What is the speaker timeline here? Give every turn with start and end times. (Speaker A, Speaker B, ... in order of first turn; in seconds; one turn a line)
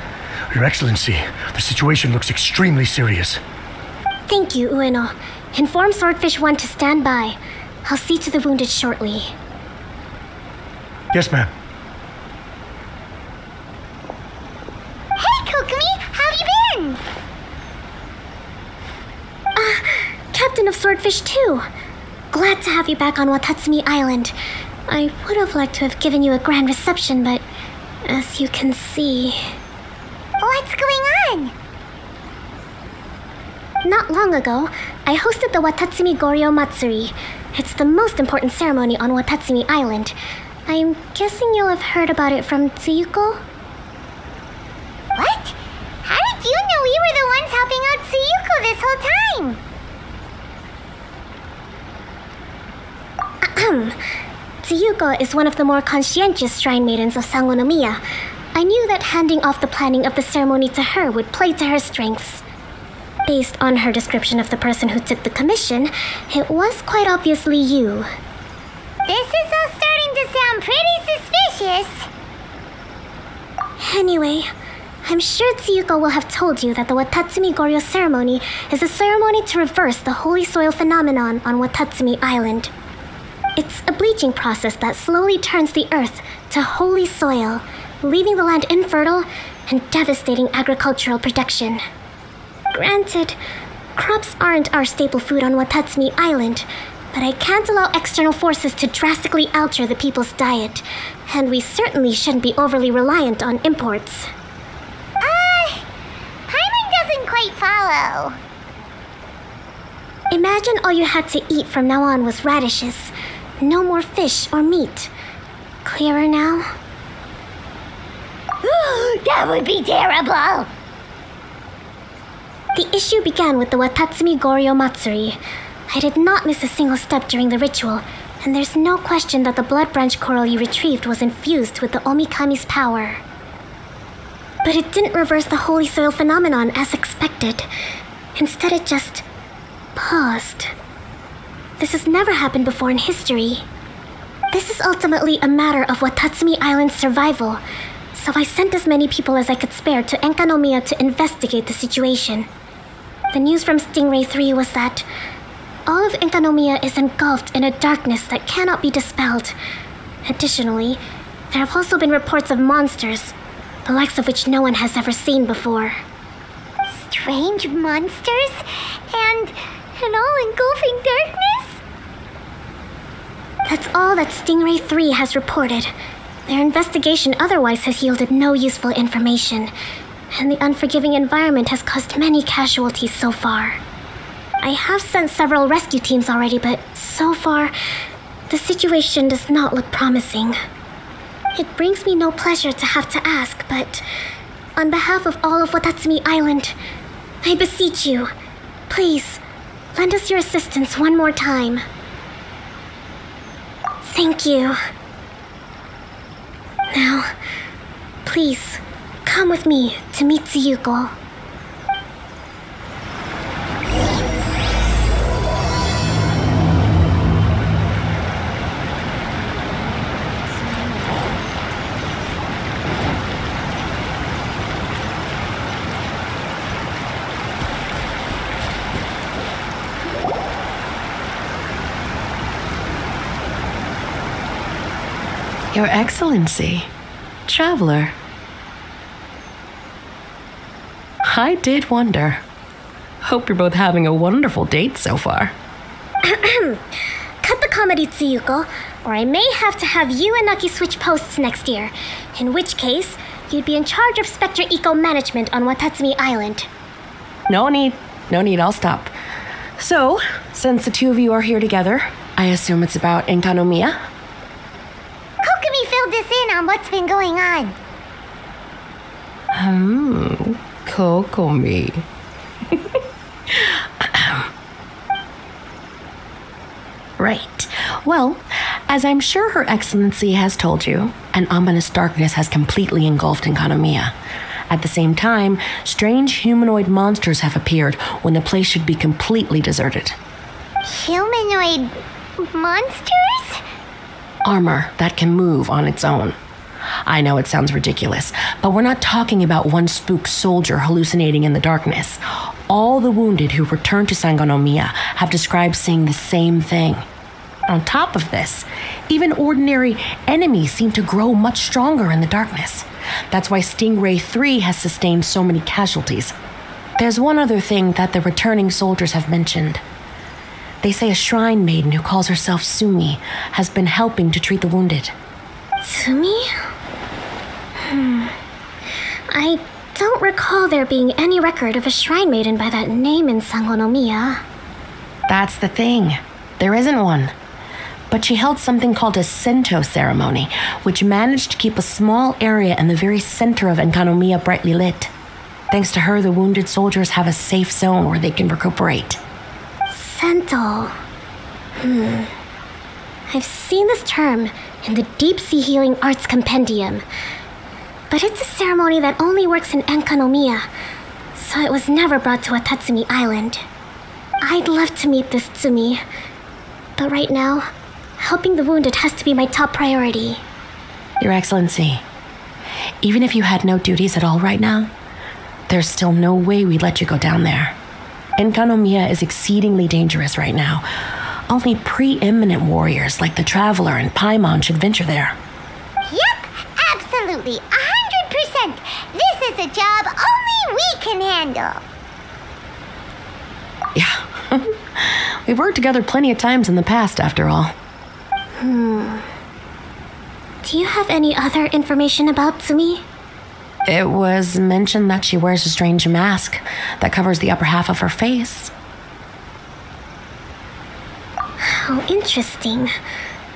Speaker A: 0.5-3.4
Speaker B: 4.3-9.3
Speaker A: 11.1-11.5
Speaker C: 15.2-17.0
Speaker B: 19.6-21.6
Speaker B: 22.3-24.3
Speaker B: 24.9-27.4
Speaker B: 28.1-29.4
Speaker C: 30.4-31.5
Speaker B: 33.8-40.1
Speaker B: 40.7-43.4
Speaker C: 45.1-49.6
Speaker B: 53.4-54.0
Speaker B: 54.6-58.0
Speaker B: 58.5-62.4
Speaker B: 63.3-68.1
Speaker C: 69.1-72.1
Speaker B: 73.8-74.5
Speaker B: 75.0-82.7
Speaker B: 83.5-91.8
Speaker B: 92.7-93.4
Speaker B: 94.0-104.3
Speaker C: 105.2-105.8
Speaker C: 106.5-108.4
Speaker B: 110.3-115.1
Speaker B: 115.8-116.7
Speaker C: 118.6-120.7
Speaker B: 122.7-125.4
Speaker B: 125.9-133.2
Speaker B: 134.6-137.7
Speaker B: 138.3-139.2
Speaker B: 139.9-140.7
Speaker B: 141.8-143.7
Speaker B: 144.5-147.6
Speaker B: 148.1-152.5
Speaker B: 153.3-155.0
Speaker B: 155.9-159.6
Speaker B: 160.2-161.0
Speaker B: 161.5-163.3
Speaker B: 163.8-166.0
Speaker C: 166.9-171.8
Speaker B: 173.7-175.9
Speaker B: 176.5-179.7
Speaker B: 180.3-183.8
Speaker B: 184.6-187.7
Speaker B: 188.5-190.6
Speaker B: 191.6-194.0
Speaker B: 194.8-196.7
Speaker B: 197.4-198.3
Speaker B: 198.9-199.4
Speaker B: 199.9-201.8
Speaker B: 204.0-204.8
Speaker B: 206.9-207.3
Speaker B: 208.2-211.1
Speaker D: 235.7-236.9
Speaker D: 237.5-238.1
Speaker D: 241.2-242.4
Speaker D: 243.2-245.5
Speaker B: 246.2-246.8
Speaker B: 247.4-256.7
Speaker D: 257.5-259.1
Speaker D: 259.8-264.0
Speaker C: 265.4-267.7
Speaker D: 269.5-272.0
Speaker D: 272.7-273.0
Speaker D: 273.5-274.5
Speaker D: 277.2-284.1
Speaker D: 284.7-290.2
Speaker C: 290.8-293.6
Speaker D: 294.4-296.4
Speaker D: 297.1-307.0
Speaker D: 307.7-316.3
Speaker D: 317.0-319.8
Speaker D: 320.8-325.1
Speaker B: 325.8-326.5
Speaker B: 327.8-328.4
Speaker B: 329.3-334.4
Speaker D: 335.3-337.3
Speaker D: 338.1-345.1
Speaker D: 345.7-349.2
Speaker B: 349.9-350.9
Speaker B: 351.8-352.3
Speaker B: 353.3-357.0
Speaker B: 358.1-360.7
Speaker B: 361.3-363.6
Speaker B: 364.4-366.0
Speaker B: 367.0-367.7
Speaker B: 368.2-370.4
Speaker D: 371.2-372.0
Speaker D: 373.0-374.9
Speaker D: 375.7-377.8
Speaker D: 378.4-385.4
Speaker C: 386.1-391.8
Speaker D: 393.9-397.7
Speaker B: 398.6-399.2
Speaker B: 400.6-403.0
Speaker D: 403.9-408.7
Speaker B: 411.6-412.9